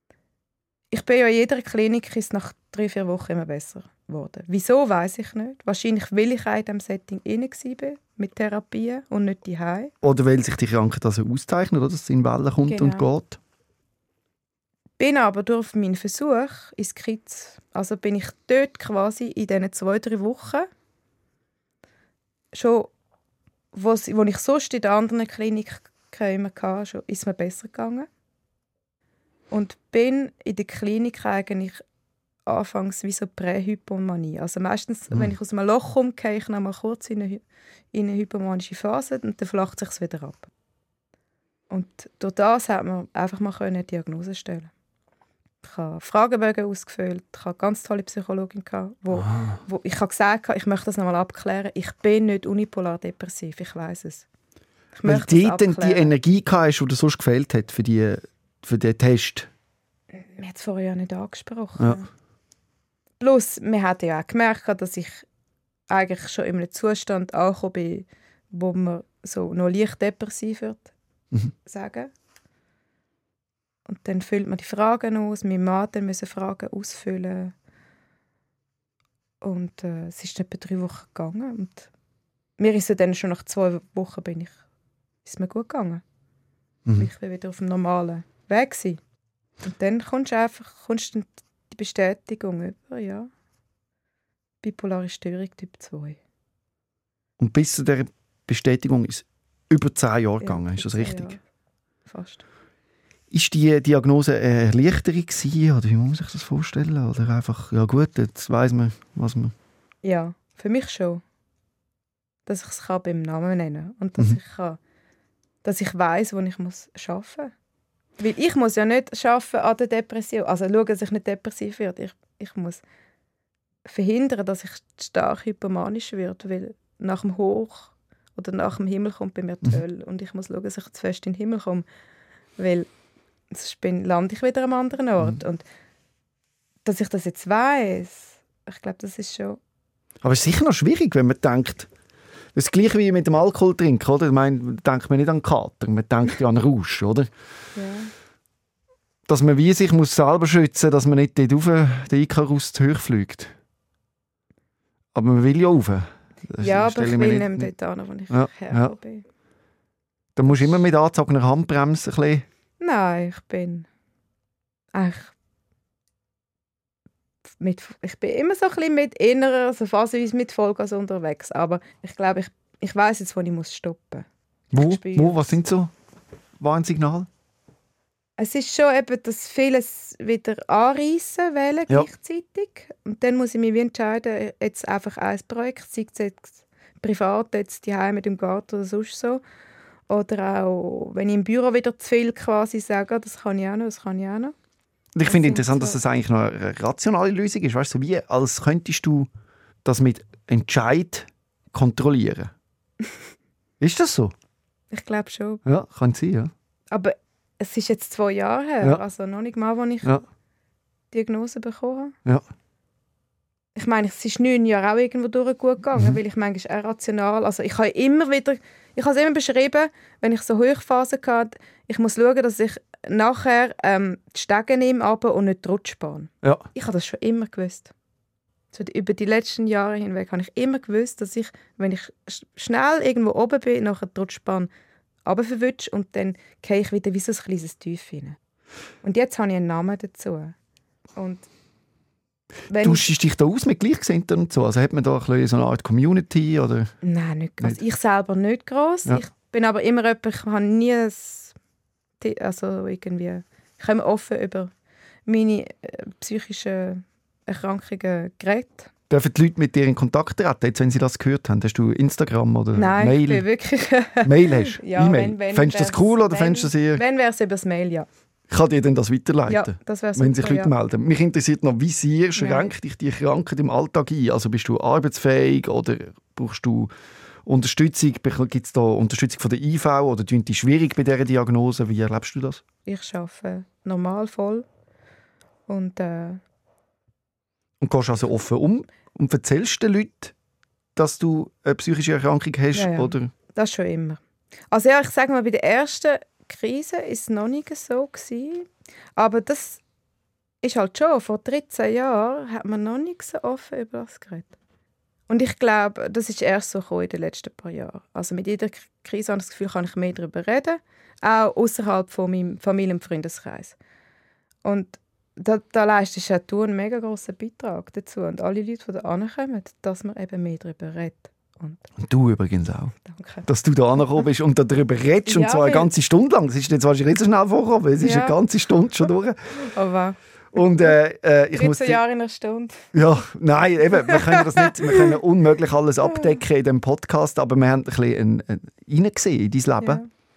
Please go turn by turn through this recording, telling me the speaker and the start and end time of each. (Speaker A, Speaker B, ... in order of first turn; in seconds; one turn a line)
Speaker A: 0.9-9.9
Speaker B: 10.0-13.4
Speaker A: 12.7-13.1
Speaker A: 15.0-20.7
Speaker A: 22.5-22.9
Speaker A: 23.7-28.1
Speaker A: 29.5-31.8
Speaker A: 32.5-37.4
Speaker A: 37.9-40.5
Speaker A: 41.7-44.7
Speaker A: 45.6-54.2
Speaker A: 54.9-56.1
Speaker B: 55.0-59.5
Speaker A: 60.1-62.1
Speaker A: 63.2-65.2
Speaker A: 65.9-70.9
Speaker A: 71.6-72.1
Speaker A: 73.8-77.5
Speaker A: 79.4-81.9
Speaker A: 82.6-84.6
Speaker A: 85.2-86.0
Speaker A: 87.0-89.0
Speaker A: 89.6-93.3
Speaker A: 94.6-96.2
Speaker B: 97.4-101.3
Speaker A: 100.4-101.4
Speaker A: 102.1-102.4
Speaker B: 103.3-109.5
Speaker A: 110.0-111.2
Speaker A: 112.5-114.8
Speaker A: 115.6-117.5
Speaker A: 118.2-122.8
Speaker A: 123.8-131.8
Speaker A: 132.6-132.9
Speaker A: 133.5-135.6
Speaker A: 136.8-139.6
Speaker B: 140.2-141.9
Speaker B: 142.5-147.3
Speaker A: 147.7-148.1
Speaker B: 149.2-153.5
Speaker B: 155.1-157.7
Speaker A: 156.6-159.2
Speaker B: 158.3-158.9
Speaker B: 160.3-162.4
Speaker A: 160.5-160.8
Speaker A: 162.8-163.8
Speaker A: 164.9-165.3
Speaker A: 167.6-175.6
Speaker B: 174.7-175.9
Speaker B: 176.6-177.3
Speaker A: 178.4-189.4
Speaker A: 190.1-194.5
Speaker B: 195.1-199.3
Speaker A: 195.2-196.0
Speaker B: 199.8-202.5
Speaker B: 203.8-204.3
Speaker A: 204.9-205.6
Speaker B: 205.6-206.5
Speaker A: 206.9-210.1
Speaker A: 211.1-212.1
Speaker A: 213.7-227.9
Speaker A: 228.7-234.7
Speaker A: 235.2-238.4
Speaker A: 239.0-240.5
Speaker A: 241.2-241.5
Speaker A: 242.7-243.1
Speaker B: 242.8-246.9
Speaker A: 247.0-251.5
Speaker A: 252.2-254.7
Speaker A: 255.3-258.9
Speaker B: 259.1-263.4
Speaker A: 262.7-268.1
Speaker B: 264.2-267.0
Speaker B: 268.5-276.9
Speaker A: 269.5-270.7
Speaker A: 272.4-272.7
Speaker B: 277.4-282.6
Speaker A: 282.9-284.6
Speaker A: 285.7-286.4
Speaker B: 287.8-290.3
Speaker B: 290.9-293.3
Speaker A: 292.7-294.2
Speaker A: 294.7-299.8
Speaker A: 300.6-304.5
Speaker A: 305.3-313.8
Speaker A: 314.6-321.9
Speaker B: 322.0-322.9
Speaker A: 323.0-323.5
Speaker B: 323.4-329.4
Speaker A: 325.3-325.9
Speaker A: 328.0-328.4
Speaker A: 329.5-330.9
Speaker B: 330.5-332.0
Speaker A: 331.5-332.9
Speaker B: 332.9-340.0
Speaker A: 334.0-335.2
Speaker A: 336.0-336.3
Speaker A: 339.8-340.1